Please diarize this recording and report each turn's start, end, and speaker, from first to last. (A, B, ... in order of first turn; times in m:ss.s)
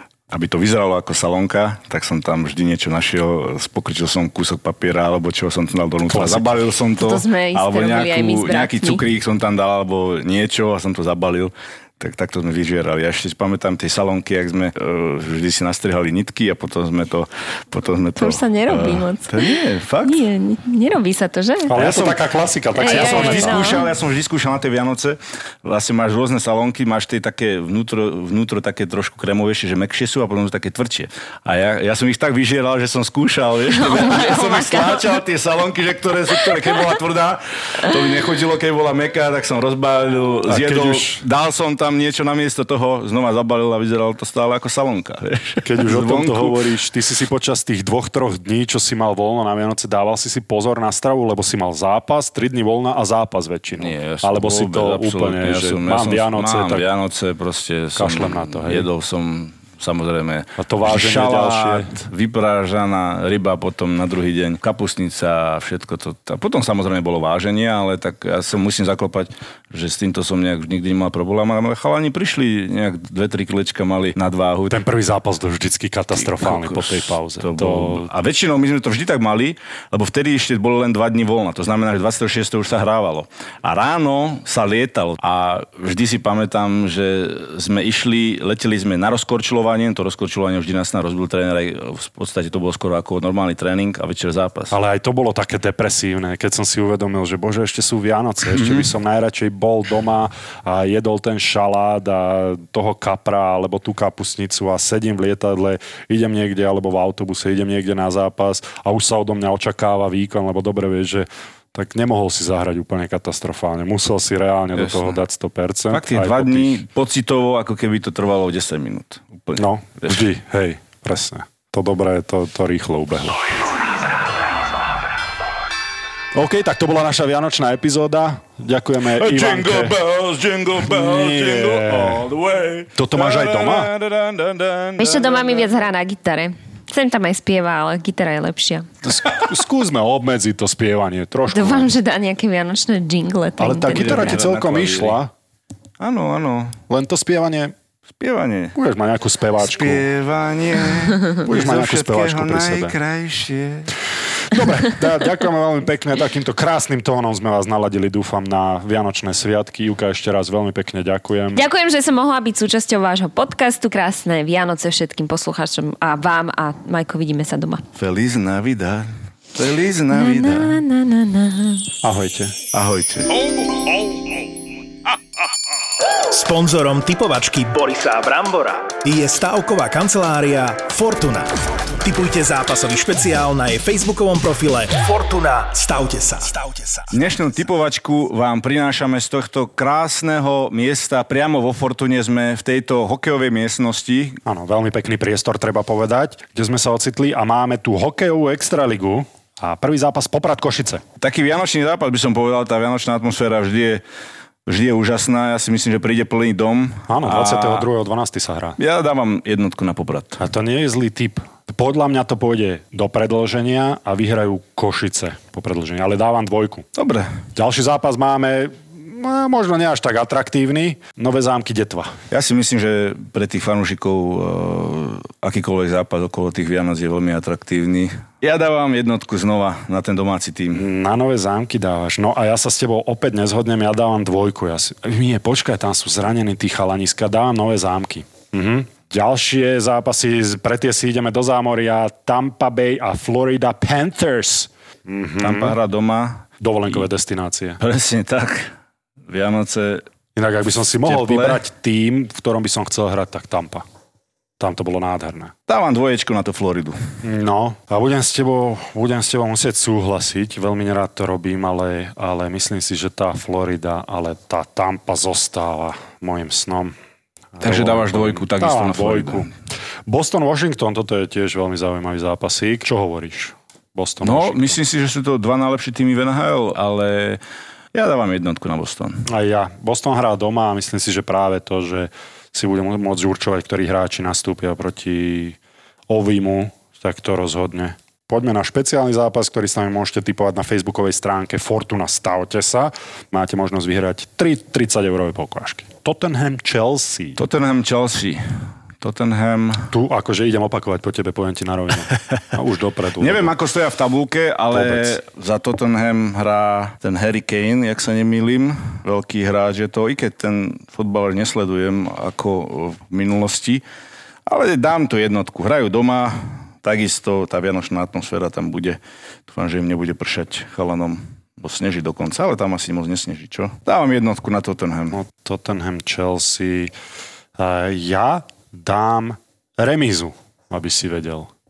0:00.3-0:20.2 A
0:06.1-0:06.5 B
0:07.0-0:09.0 C
0:18.2-0:21.8 C
0:21.7-0:23.8 B
0:21.8-0:22.2 A
0:22.8-0:23.9 C
0:22.8-0:46.6 A
0:33.7-0:35.1 C
0:40.5-0:41.2 B
0:45.6-0:56.8 B
0:53.8-1:14.8 A
0:58.0-0:58.9 B
1:00.6-1:02.0 B
1:14.7-1:18.1 B
1:16.1-1:34.8 A
1:34.7-1:56.8 B
1:38.6-1:38.9 A
1:54.8-1:55.2 A
1:55.9-2:00.2 A
1:59.6-2:03.5 B
2:06.3-2:10.0 B
2:09.1-2:15.8 A
2:10.8-2:12.3 B
2:13.0-2:13.9 B
2:15.0-2:18.9 C
2:19.0-2:21.9 B
2:21.5-2:24.3 C
2:23.6-2:25.3 B
2:23.9-2:25.2 A
2:26.0-2:26.8 A
2:26.9-2:27.7 B
2:28.1-2:28.8 A
2:28.8-2:30.1 B
2:29.6-2:33.9 A
2:31.4-2:33.0 B
2:34.5-2:41.6 B
2:41.5-2:47.8 C
2:48.0-2:50.8 A
2:50.1-2:51.9 C
2:52.0-2:52.6 B
2:52.7-2:53.3 A
2:56.3-3:07.1 D
3:07.1-3:14.4 A
3:14.4-3:21.0 B
3:21.2-3:24.0 A
3:24.7-3:27.9 A
3:27.1-3:28.8 B
3:28.8-3:30.4 A
3:30.4-3:36.9 B
3:37.0-3:37.4 A
3:37.6-3:42.1 B
3:42.3-3:50.8 A
3:50.7-4:05.8 B
4:05.4-4:07.0 A
4:06.6-4:07.8 B
4:07.8-4:08.7 A
4:09.3-4:10.0 A
4:10.4-4:13.8 B
4:11.0-4:11.6 A
4:14.6-4:15.5 B
4:15.7-4:17.0 A
4:17.2-4:26.9 B
4:27.6-4:29.5 B
4:27.6-4:29.5 A
4:30.1-4:34.8 B
4:34.2-4:37.4 A
4:37.9-4:39.3 A
4:39.3-4:45.6 B
4:46.1-4:57.4 B
4:57.4-4:59.9 A
4:59.9-5:03.5 B
5:03.2-5:13.8 A
5:04.7-5:05.2 B
5:14.5-5:25.2 A
5:25.1-5:26.9 B
5:27.6-5:31.5 B